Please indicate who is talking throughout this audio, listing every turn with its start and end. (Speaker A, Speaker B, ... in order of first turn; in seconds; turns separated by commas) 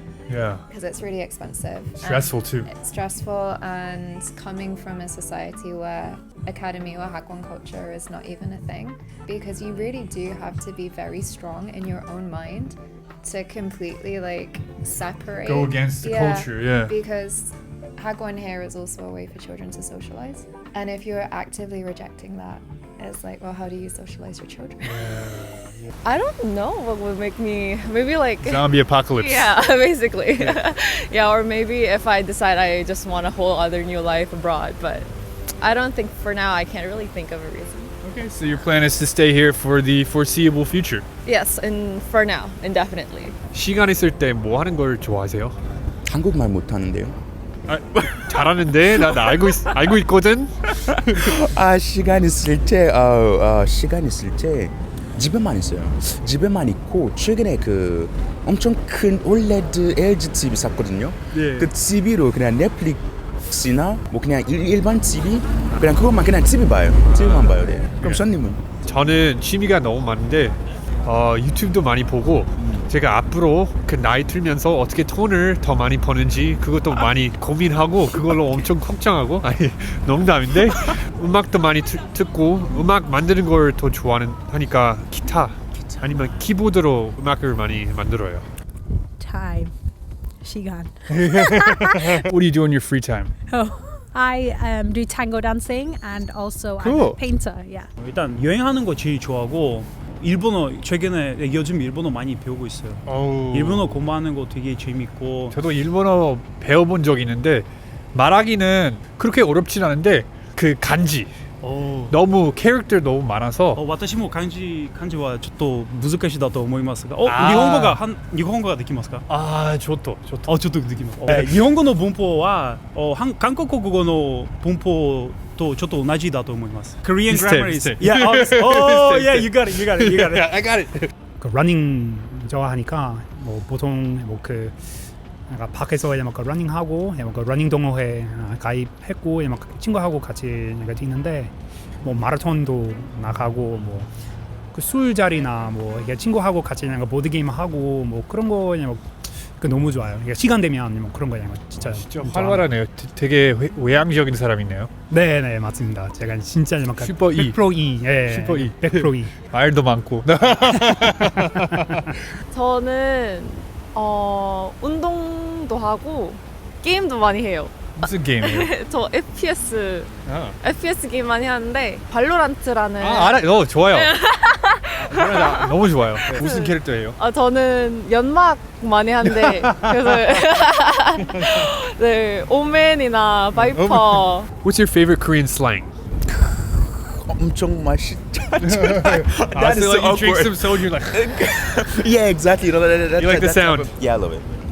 Speaker A: 0.3-0.6, Speaker B: 0.7-25.1, Speaker A: 2.0-2.7, Speaker A: 15.4-16.9, Speaker A: 24.8-25.9, Speaker C: 26.0-35.1, Speaker A: 28.4-29.7, Speaker A: 30.4-30.6, Speaker C: 35.6-37.9, Speaker A: 38.0-41.0, Speaker C: 41.2-43.4, Speaker A: 43.5-45.5, Speaker D: 46.0-47.1, Speaker A: 47.7-50.5, Speaker D: 51.1-68.6, Speaker A: 61.3-61.7, Speaker A: 67.1-68.2, Speaker A: 68.8-88.4, Speaker D: 72.6-72.8, Speaker E: 89.2-89.7, Speaker E: 90.4-92.2, Speaker A: 91.1-93.3, Speaker E: 93.5-97.9, Speaker A: 96.8-97.2, Speaker F: 98.0-105.5, Speaker A: 103.1-104.0, Speaker A: 105.5-111.3, Speaker F: 111.6-112.1, Speaker A: 112.1-113.8, Speaker F: 113.7-119.2, Speaker A: 117.2-118.0, Speaker A: 119.3-120.5, Speaker F: 120.4-130.5, Speaker A: 121.3-121.5, Speaker A: 127.3-131.1, Speaker G: 131.4-134.7, Speaker G: 135.5-141.5, Speaker G: 142.0-144.1, Speaker G: 144.7-149.0, Speaker G: 149.6-152.7, Speaker A: 151.8-154.9, Speaker G: 155.1-159.3, Speaker A: 157.0-157.6, Speaker A: 158.2-162.2, Speaker C: 162.5-170.1, Speaker A: 167.9-168.7, Speaker A: 170.3-170.6, Speaker C: 170.6-184.5, Speaker A: 173.0-174.1, Speaker A: 175.0-177.2, Speaker A: 179.2-180.4, Speaker A: 183.5-185.9, Speaker D: 186.3-194.5, Speaker A: 188.6-191.2, Speaker A: 193.2-193.9